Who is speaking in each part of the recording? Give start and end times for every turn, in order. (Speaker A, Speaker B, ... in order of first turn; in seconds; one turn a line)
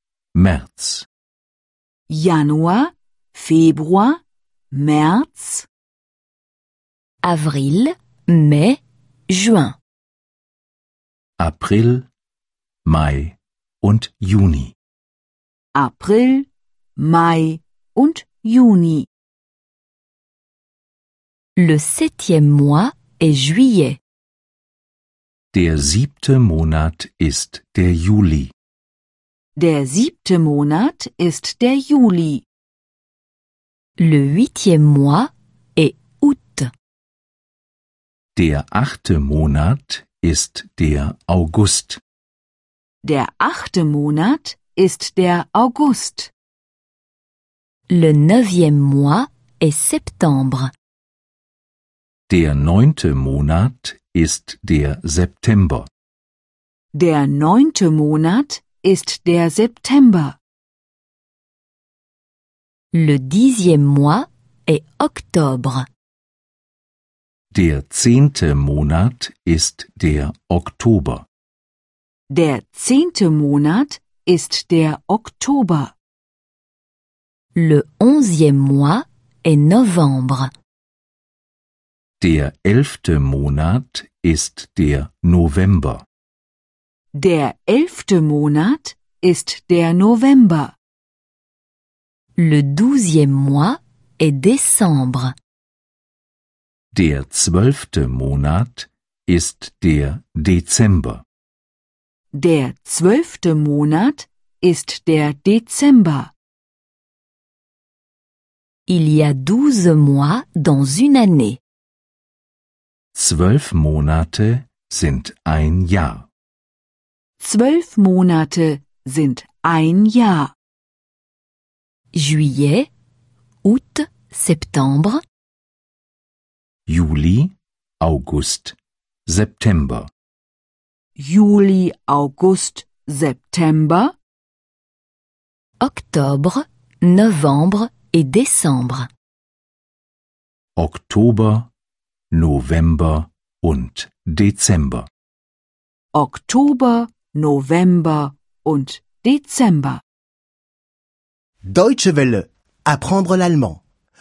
Speaker A: 0.3-1.1
Speaker B: 2.1-4.2
Speaker B: 4.7-5.7
Speaker C: 7.2-9.8
Speaker A: 11.4-12.1
Speaker A: 12.8-14.7
Speaker B: 15.7-16.5
Speaker B: 17.0-19.1
Speaker C: 21.6-24.0
Speaker A: 25.5-28.5
Speaker B: 29.6-32.4
Speaker C: 34.0-36.7
Speaker A: 38.4-42.0
Speaker B: 43.0-46.3
Speaker C: 47.9-50.7
Speaker A: 52.3-55.9
Speaker B: 56.9-60.4
Speaker C: 62.9-65.9
Speaker A: 67.5-71.2
Speaker B: 72.3-75.9
Speaker C: 77.5-80.5
Speaker A: 82.2-86.0
Speaker B: 87.2-90.7
Speaker C: 92.3-95.3
Speaker A: 96.9-101.2
Speaker B: 102.3-106.3
Speaker C: 108.9-111.6
Speaker A: 113.1-116.2
Speaker B: 117.4-120.5
Speaker C: 122.1-122.9
Speaker C: 123.6-125.2
Speaker A: 126.9-128.8
Speaker A: 129.3-130.1
Speaker B: 131.2-134.1
Speaker C: 135.8-139.1
Speaker A: 140.8-141.7
Speaker A: 142.3-145.1
Speaker B: 146.1-150.0
Speaker D: 151.7-153.8